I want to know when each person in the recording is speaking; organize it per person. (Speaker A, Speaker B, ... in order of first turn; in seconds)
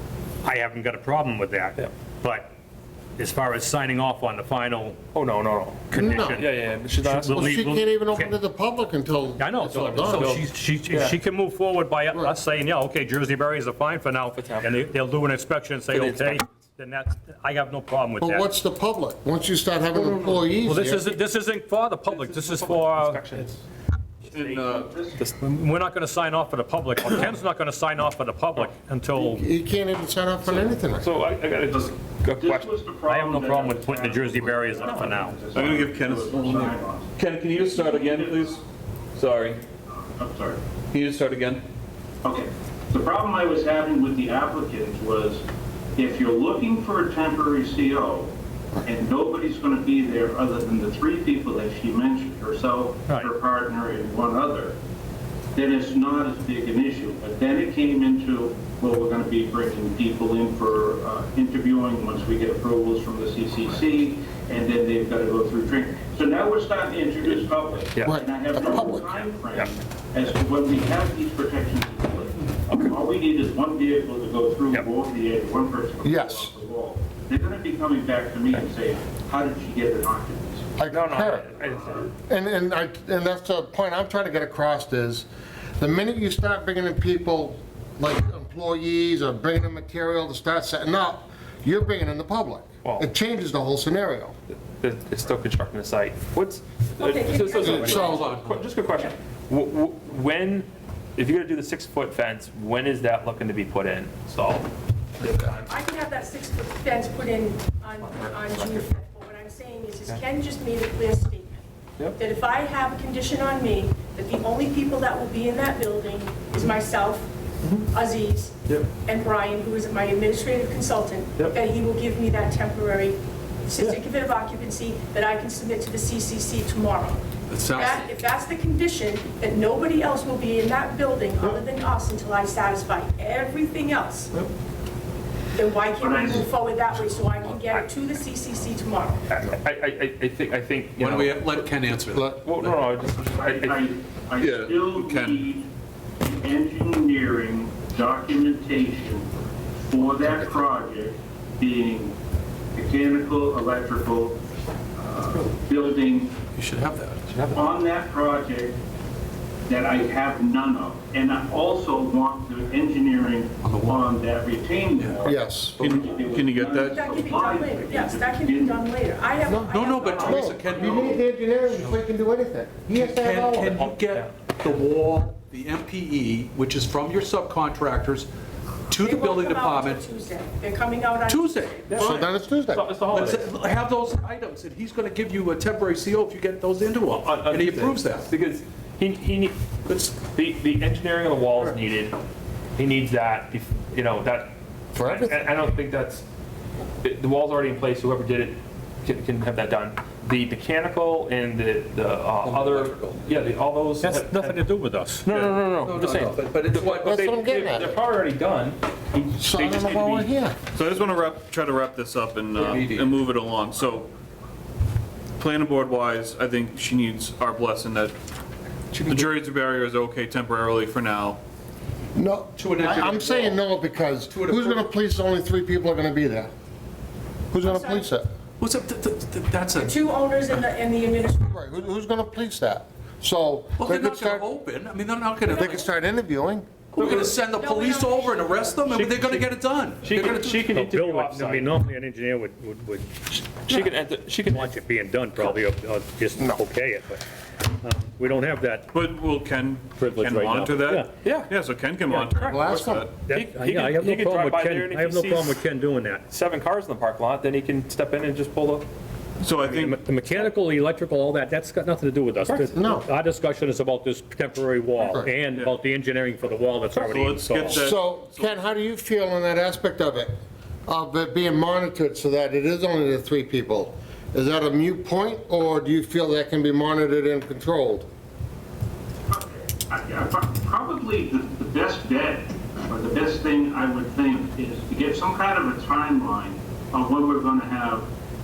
Speaker A: 0.4-2.5, 3.2-5.0, 5.9-6.5, 7.0-8.3, 9.4-18.5, 20.0-23.2, 25.4-29.4, 33.1-35.4, 204.0-205.3, 240.6-243.9, 244.5-247.2, 247.8-248.9, 250.0-251.1, 253.3-256.2, 259.6-267.8
Speaker B: 5.1-7.5, 9.8-11.2, 14.3-14.7, 15.9-16.4, 22.1-23.6, 30.4-32.7, 34.8-35.2, 68.0-68.2, 80.9-82.1, 94.5-105.7, 108.0-108.9, 137.4-137.9, 139.3-141.7, 142.4-143.9, 157.3-157.7, 165.8-166.2, 174.0-174.3, 181.9-183.5, 187.2-192.2, 192.8-196.2, 197.0-204.6, 205.2-208.8, 236.9-237.3, 238.8-241.7, 243.7-244.8, 251.2-251.5, 253.3-255.6, 256.3-258.9, 262.4-262.8
Speaker C: 5.9-6.4, 7.3-10.3, 18.2-21.1, 29.1-31.1, 68.0-69.1, 76.0-76.5, 80.8-85.3, 85.8-94.3, 97.5-98.3, 142.1-142.4, 165.2-165.8, 169.4-173.9, 181.9-182.9, 194.9-195.4, 206.8-208.0, 209.2-210.6, 222.2-226.5, 227.5-228.3, 231.4-234.5, 235.5-236.7, 252.3-253.1, 262.8-263.1, 267.8-270.3, 270.9-278.1
Speaker D: 24.3-24.9, 35.5-38.6, 39.1-39.6, 40.9-41.6, 144.4-145.4, 165.7-167.0, 205.3-205.5, 209.6-214.1, 215.4-218.2, 219.0-221.4, 248.9-253.1, 259.4-260.0, 266.9-268.5
Speaker E: 24.9-25.2, 31.7-38.4, 39.9-40.6, 42.2-45.4, 46.0-48.3, 48.8-54.7, 55.5-80.6, 136.0-136.4, 143.4-145.7, 146.2-149.2, 149.9-152.2, 152.8-154.4, 155.0-156.4, 157.6-158.8, 159.7-168.7, 279.3-288.1
Speaker F: 33.5-36.6, 68.6-68.9, 97.6-98.7, 127.5-128.1, 141.0-142.3, 156.4-157.4, 163.6-164.2, 164.9-165.3, 166.1-168.8, 169.7-171.2, 172.9-178.3, 178.9-180.0, 181.2-181.8, 183.1-188.3, 202.4-203.3, 205.8-207.2, 212.6-213.1, 218.9-219.2, 222.6-223.6, 224.3-224.8, 228.6-230.0, 233.8-235.8, 236.9-240.6
Speaker G: 97.0-98.2, 105.7-111.6, 112.2-117.3, 117.9-127.2, 127.7-134.3, 135.5-139.2, 166.9-170.4, 179.0-181.7, 227.6-228.1, 229.8-231.6, 235.5-235.9, 237.5-238.8